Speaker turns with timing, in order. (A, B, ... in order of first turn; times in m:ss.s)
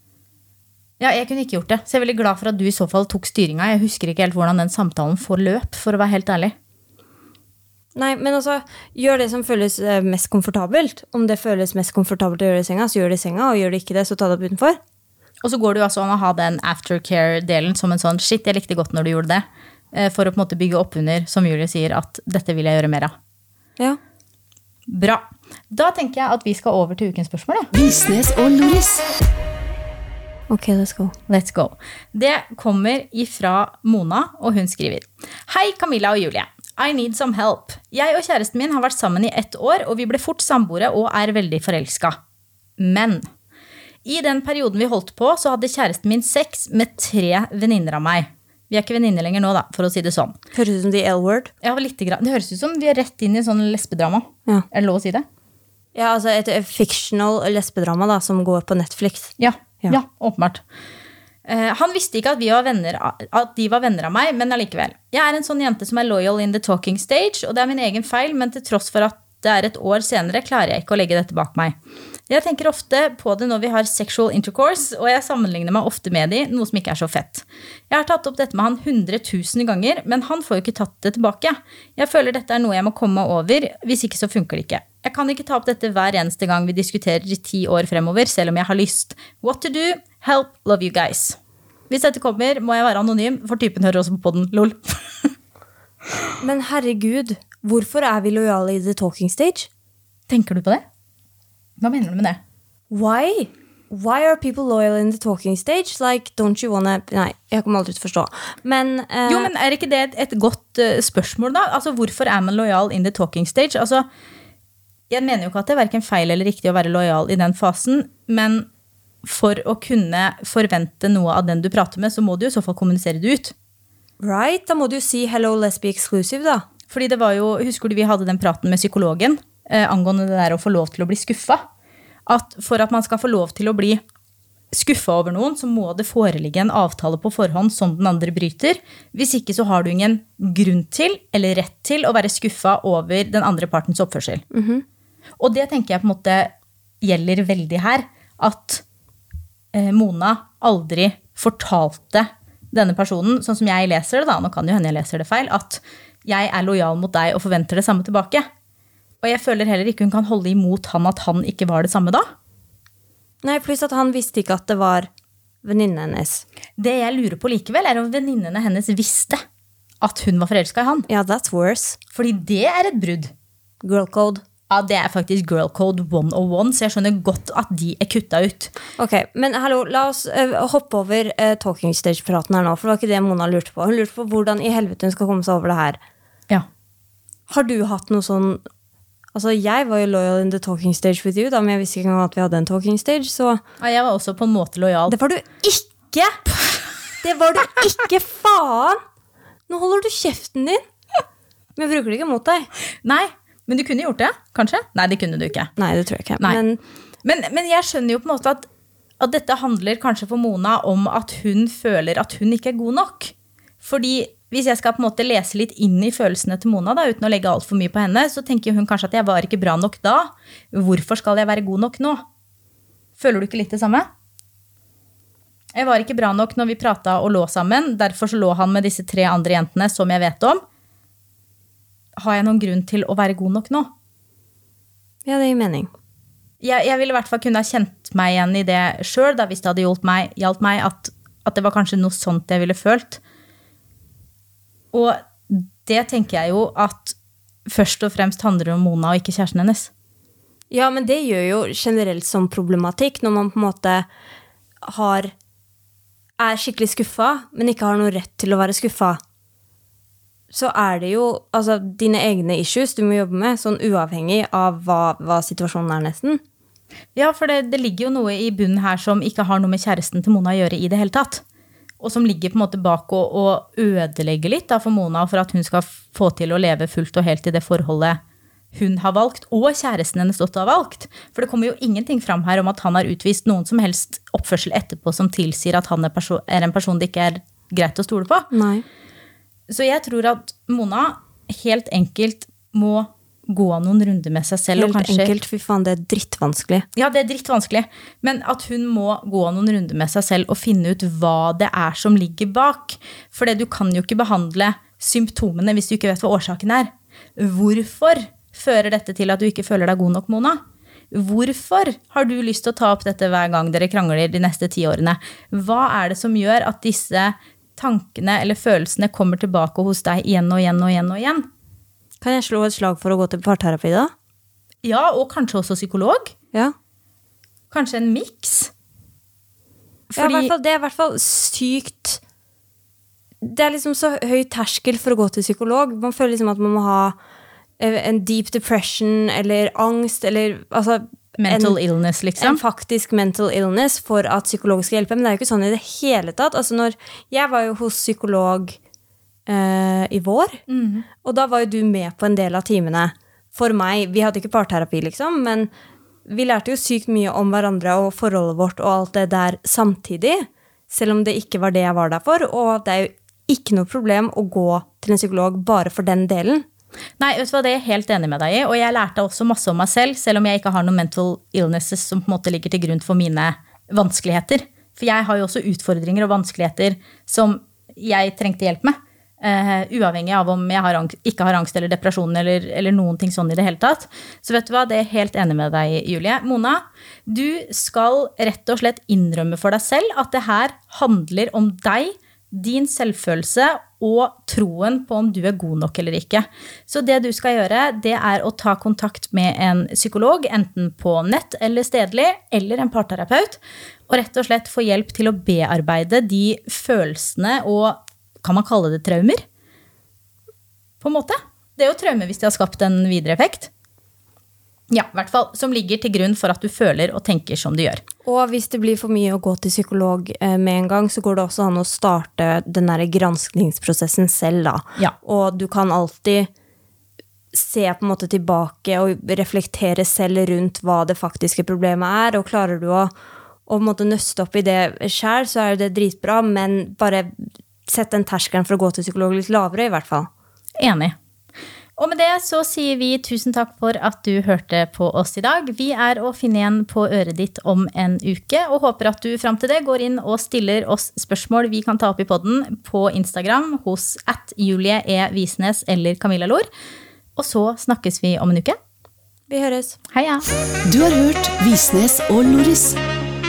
0:01.0-0:06.5 A
0:07.9-0:14.8 B
0:15.4-0:23.1 A
0:24.9-0:27.7 A
0:27.7-0:29.0 C
0:30.5-0:31.1 B
0:31.3-0:42.2 A
0:42.8-0:43.3 A
0:44.0-0:50.4 A
0:50.5-0:51.5 B
0:51.6-0:55.2 A
0:55.9-1:00.0 B
0:59.4-1:00.6 A
1:01.4-1:11.8 A
1:12.3-1:35.3 A
1:36.4-1:39.7 B
1:40.3-1:40.8 A
1:41.8-1:42.4 A
1:42.9-1:49.5 B
1:49.3-1:54.0 A
1:55.1-1:58.7 A
1:59.2-2:03.5 A
2:04.2-2:06.6 B
2:06.9-2:11.6 A
2:12.3-2:14.0 A
2:14.7-2:24.4 A
2:24.5-2:24.8 B
2:25.4-2:28.8 A
2:29.7-2:38.5 A
2:39.2-2:42.2 A
2:43.4-2:45.1 B
2:45.6-2:46.4 B
2:46.8-2:49.4 A
2:50.0-2:51.1 A
2:51.1-2:52.0 B
2:52.1-2:53.3 A
2:53.8-2:54.4 B
2:54.7-2:58.7 A
2:59.0-3:06.0 B
3:07.5-3:08.6 B
3:09.3-3:13.6 B
3:13.8-3:15.2 A
3:15.1-3:16.1 B
3:16.1-3:16.5 A
3:17.2-3:19.0 B
3:19.7-3:20.8 B
3:21.8-3:22.7 B
3:23.0-3:25.7 A
3:25.8-3:26.8 B
3:27.2-3:28.7 A
3:29.2-3:42.2 A
3:43.2-3:44.1 A
3:45.7-3:50.6 A
3:52.2-3:53.9 A
3:55.2-3:55.9 B
3:56.6-4:03.2 A
4:04.9-4:09.9 A
4:10.7-4:14.1 B
4:14.8-4:15.3 B
4:16.4-4:19.2 B
4:20.5-4:26.4 B
4:27.1-4:31.4 A
4:32.0-4:38.2 A
4:38.7-4:48.5 A
4:48.5-4:48.8 B
4:49.7-4:55.3 A
4:54.7-4:56.8 B
4:56.9-5:21.5 A
5:22.2-5:24.1 B
5:24.8-5:26.3 A
5:27.7-5:28.7 A
5:30.1-5:30.5 A
5:30.2-5:32.2 B
5:33.4-5:37.2 B
5:37.8-5:41.8 B
5:41.4-5:42.6 A
5:42.4-5:48.8 B
5:49.5-5:50.6 B
5:50.7-5:51.0 A
5:51.2-5:55.7 B
5:56.2-6:06.6 B
6:07.2-6:49.4 A
6:51.0-6:53.7 A
6:54.9-6:58.0 A
6:58.2-7:06.5 B
7:07.5-7:13.1 B
7:13.7-7:20.3 B
7:20.8-7:21.2 A
7:22.0-7:36.7 A
7:37.4-7:38.8 A
7:39.5-7:40.0 B
7:40.1-7:40.5 A
7:40.8-7:43.0 C